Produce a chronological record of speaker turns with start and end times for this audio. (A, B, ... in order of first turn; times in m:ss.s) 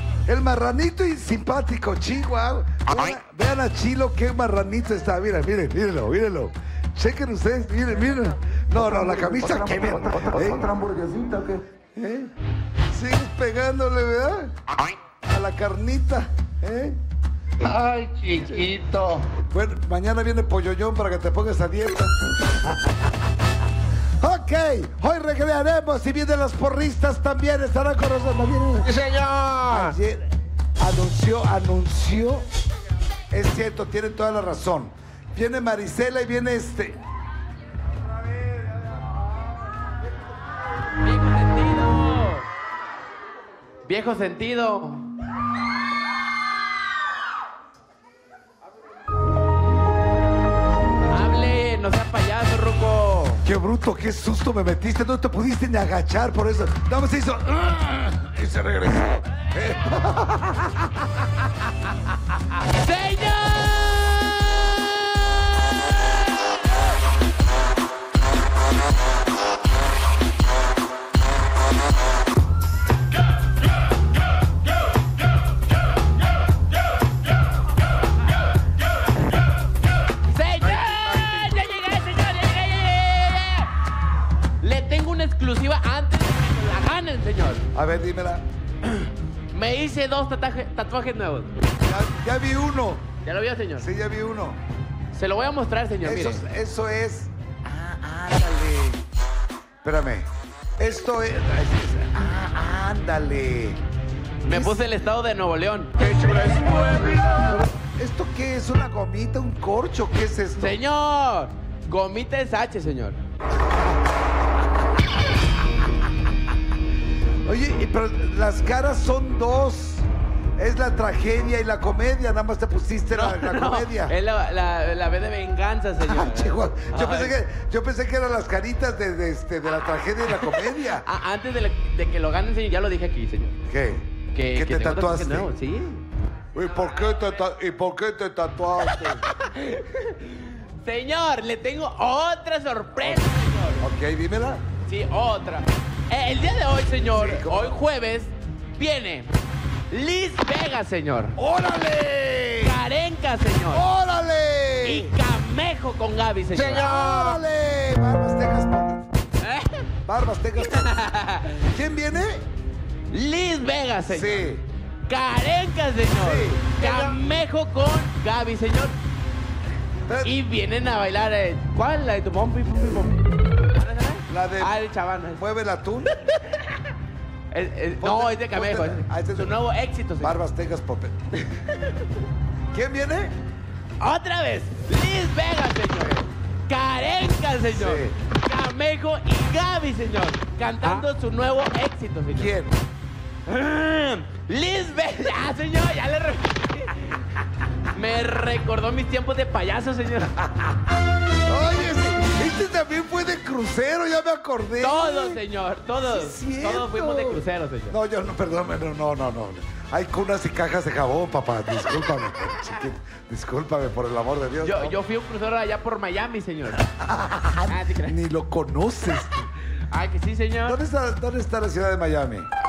0:00.3-0:10.7 A
0:08.7-0:11.6 B
0:12.0-0:12.3 A
0:12.9-0:14.5 A
0:15.2-0:17.0 A
0:17.6-0:19.3 B
0:19.5-0:22.1 A
0:24.2-0:28.9 A
0:28.8-0:29.9 B
0:29.7-0:32.4 A
0:33.3-0:37.0 A
0:41.0-0:42.4 C
0:43.9-0:45.0 C
0:51.1-0:53.4 C
0:53.4-1:01.0 A
1:02.7-1:05.4 C
1:20.3-1:23.7 C
1:20.6-1:21.5 A
1:24.6-1:27.6 C
1:27.7-1:28.4 A
1:29.5-1:31.5 C
1:31.8-1:33.1 A
1:33.2-1:33.9 C
1:33.8-1:34.6 A
1:35.1-1:36.4 C
1:36.0-1:39.0 A
1:39.8-1:43.8 A
1:44.4-1:45.9 C
1:44.4-1:44.8 A
1:47.4-1:50.8 A
1:50.6-1:53.2 C
1:57.4-2:00.1 A
2:00.6-2:04.1 A
2:03.1-2:07.4 C
2:06.1-2:11.0 A
2:10.6-2:13.5 C
2:13.7-2:15.5 A
2:14.4-2:16.0 C
2:16.5-2:19.2 A
2:19.0-2:23.8 C
2:23.8-2:24.6 A
2:24.9-2:29.3 C
2:27.1-2:27.8 A
2:29.9-2:31.4 C
2:31.4-2:32.8 A
2:32.6-2:33.8 C
2:33.7-2:35.1 A
2:34.8-2:36.9 C
2:36.6-2:39.1 A
2:36.6-2:37.4 B
2:39.4-2:39.7 C
2:40.1-2:40.9 A
2:40.6-2:41.6 C
2:41.7-2:42.4 A
2:43.1-2:44.5 C
2:44.1-2:44.6 A
2:45.1-2:48.9 C
2:46.2-2:46.7 A
2:50.2-2:53.1 C
2:53.8-2:55.4 C
2:54.3-2:54.8 A
2:55.3-2:56.1 A
2:57.5-3:00.4 C
2:58.0-2:59.5 A
3:00.2-3:01.2 A
3:02.7-3:03.3 A
3:04.0-3:12.6 C
3:07.7-3:08.2 A
3:12.3-3:12.8 A
3:13.5-3:17.0 C
3:17.9-3:20.7 C
3:21.4-3:25.4 A
3:24.8-3:27.9 C
3:26.0-3:35.0 A
3:34.6-3:36.8 C
3:37.0-3:39.5 A
3:37.7-3:38.2 C
3:39.9-3:40.8 C
3:40.6-3:42.5 A